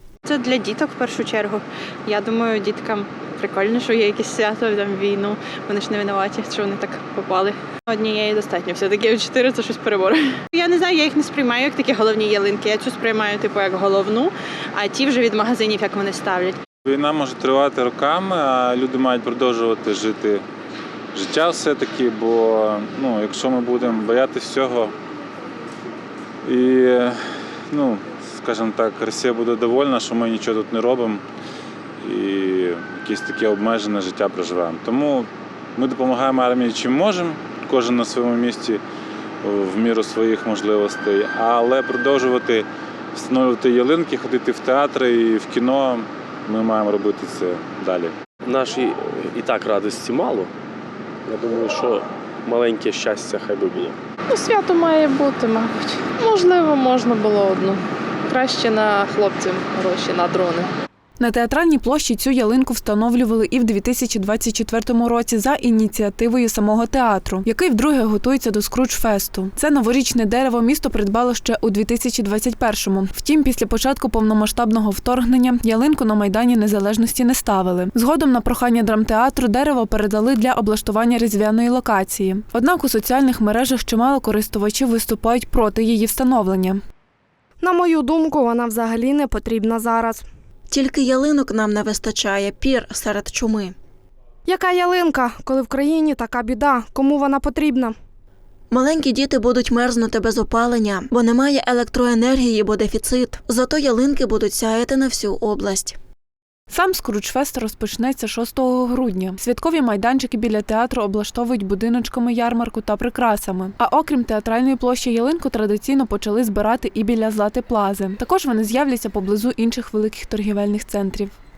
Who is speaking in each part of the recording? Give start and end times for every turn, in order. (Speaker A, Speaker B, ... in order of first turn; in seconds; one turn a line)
Speaker A: 0.3-16.6
Speaker B: 16.9-20.4
Speaker B: 21.1-24.9
Speaker B: 26.4-31.2
Speaker B: 32.0-38.8
Speaker B: 39.4-48.1
Speaker C: 48.5-50.5
Speaker C: 51.3-54.0
Speaker D: 54.3-60.7
Speaker E: 61.2-86.8
Speaker F: 87.6-90.3
Speaker G: 90.7-93.8
Speaker F: 94.5-98.0
Speaker G: 98.7-106.0
Speaker E: 106.7-121.3